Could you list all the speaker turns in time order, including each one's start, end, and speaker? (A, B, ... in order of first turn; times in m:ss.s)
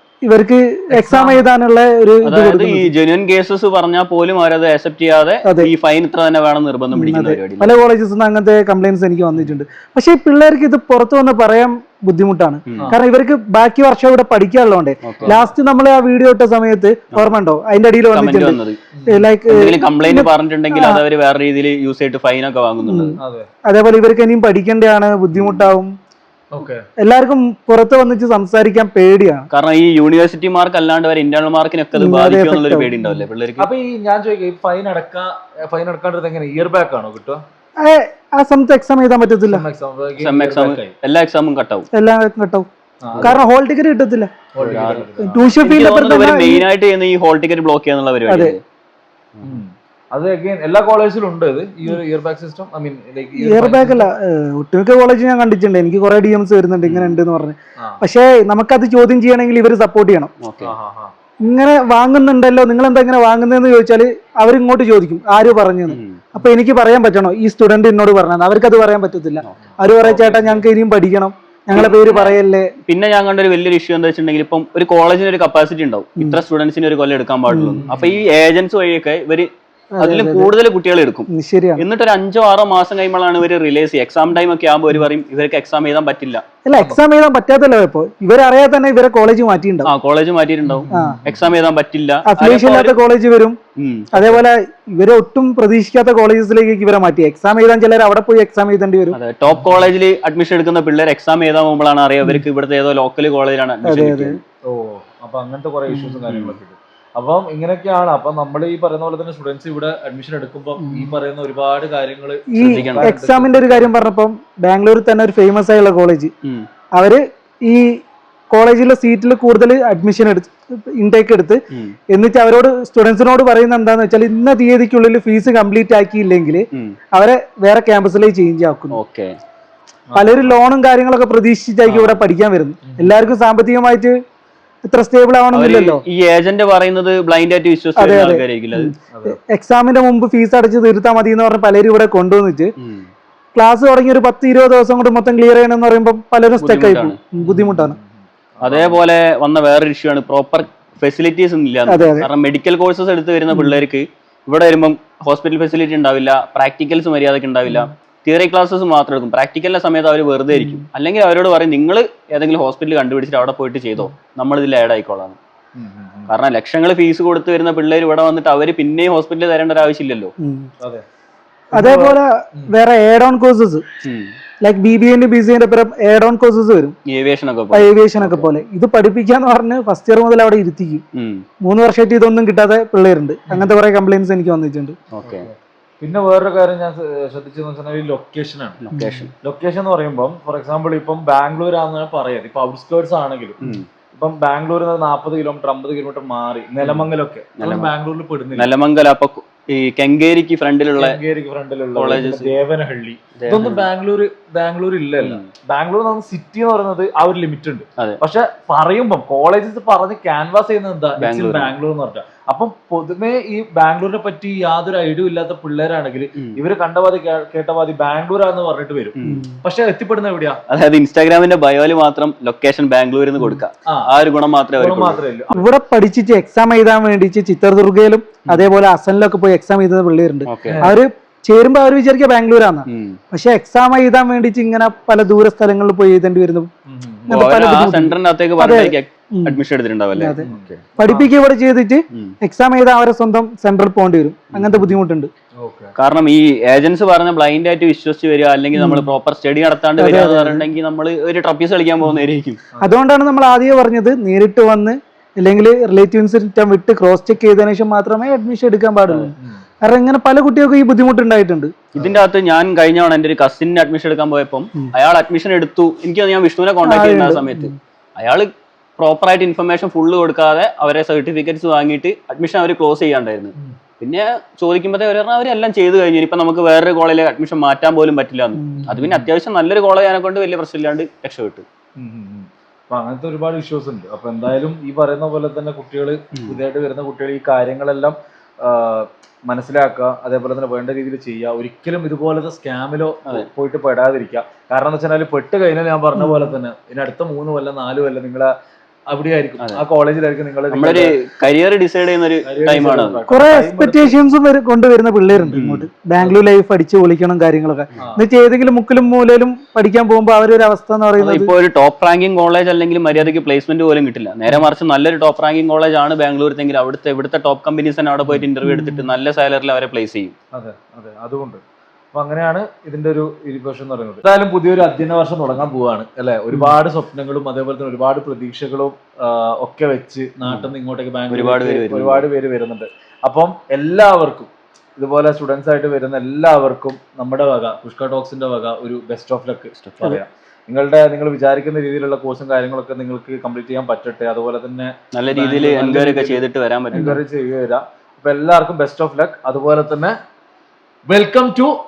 0:00.2-0:02.9 A
0:00.9-0:01.4 B
0:02.2-0:07.7 C
0:05.4-0:05.7 A
0:06.9-0:21.0 A
0:12.7-0:13.0 C
0:15.0-0:15.4 C
0:18.1-0:18.8 C
0:18.9-0:19.3 B
0:19.5-0:23.2 C
0:22.8-0:25.9 A
0:23.2-0:23.5 B
0:25.3-0:25.7 C
0:26.5-0:26.8 B
0:27.0-0:29.5 A
0:29.5-0:33.7 C
0:31.9-0:33.2 A
0:33.6-0:37.4 B
0:37.8-0:39.6 A
0:39.5-0:40.9 B
0:40.2-0:41.9 C
0:41.9-0:42.7 A
0:43.0-0:43.4 B
0:43.1-0:43.4 C
0:43.2-0:44.3 A
0:44.5-0:45.5 B
0:44.6-0:45.1 C
0:45.2-0:46.6 A
0:45.6-0:48.6 C
0:48.3-0:48.5 A
0:49.4-0:54.1 B
0:53.4-1:00.3 A
0:56.8-0:57.2 C
1:00.4-1:00.7 C
1:00.6-1:01.1 B
1:01.4-1:12.7 A
1:05.9-1:06.2 C
1:09.8-1:10.6 B
1:11.7-1:19.5 C
1:17.5-1:17.8 A
1:17.8-1:18.2 B
1:20.0-1:20.5 A
1:20.0-1:26.4 C
1:21.3-1:21.8 A
1:26.6-1:29.9 A
1:29.8-1:33.0 C
1:30.8-1:31.5 B
1:30.9-1:31.2 A
1:32.3-1:33.6 A
1:33.8-1:34.4 C
1:34.1-1:39.2 A
1:39.1-1:44.4 C
1:39.5-1:39.9 B
1:43.8-1:44.4 A
1:44.6-1:53.9 B
1:45.9-1:46.2 A
1:46.3-1:46.6 C
1:50.8-1:51.1 A
1:52.5-1:56.3 A
1:52.6-1:53.1 C
1:57.0-1:58.0 A
1:58.5-2:01.6 A
2:02.1-2:09.0 A
2:08.9-2:09.4 C
2:10.1-2:10.6 B
2:10.2-2:14.2 A
2:11.8-2:12.2 C
2:12.8-2:13.2 B
2:14.8-2:16.0 A
2:15.5-2:18.9 C
2:18.0-2:22.7 A
2:19.1-2:19.4 B
2:22.8-2:23.1 C
2:23.5-2:27.9 A
2:26.6-2:27.2 C
2:27.4-2:29.0 B
2:28.6-2:45.4 C
2:31.9-2:32.3 A
2:33.5-2:33.8 A
2:40.5-2:40.8 A
2:45.8-2:46.3 B
2:46.3-2:50.3 C
2:50.4-2:50.7 A
2:51.7-2:52.7 B
2:51.7-2:53.8 A
2:54.0-2:54.3 C
2:54.6-2:56.9 A
2:57.1-2:58.5 C
2:57.7-3:01.0 A
3:01.1-3:01.4 C
3:01.6-3:05.0 A
3:05.1-3:05.5 C
3:05.2-3:08.9 B
3:08.8-3:09.3 C
3:08.9-3:09.3 A
3:09.4-3:18.7 B
3:17.6-3:17.9 C
3:18.5-3:21.2 C
3:20.9-3:40.6 B
3:22.0-3:22.5 C
3:23.4-3:23.9 C
3:25.2-3:25.5 C
3:31.2-3:31.7 C
3:39.2-3:39.4 C
3:39.2-3:39.6 A
3:40.7-3:45.2 C
3:43.9-3:44.1 B
3:44.8-3:45.7 B
3:45.5-3:56.7 A
3:50.5-3:50.8 C
3:50.6-3:51.0 B
3:52.9-3:53.2 C
3:56.9-3:57.5 B
3:57.3-3:59.6 A
3:57.3-4:00.7 C
4:00.1-4:00.4 A
4:00.4-4:01.3 B
4:01.0-4:05.3 A
4:04.5-4:04.9 C
4:05.6-4:05.9 B
4:06.0-4:12.6 C
4:08.7-4:09.1 A
4:10.0-4:10.6 A
4:12.8-4:21.7 A
4:22.0-4:22.2 B
4:22.0-4:41.6 C
4:26.8-4:27.7 A
4:38.6-4:38.9 A
4:38.8-4:39.3 B
4:42.0-4:58.5 B
4:56.2-4:56.6 A
4:59.1-5:01.1 B
5:00.7-5:03.2 C
5:02.4-5:04.2 B
5:03.3-5:11.5 A
5:05.5-5:05.9 C
5:11.2-5:20.3 C
5:18.6-5:19.1 A
5:20.5-5:21.6 B
5:22.1-5:50.1 B
5:31.3-5:32.2 C
5:39.7-5:40.1 C
5:45.1-5:47.2 C
5:51.1-5:51.7 B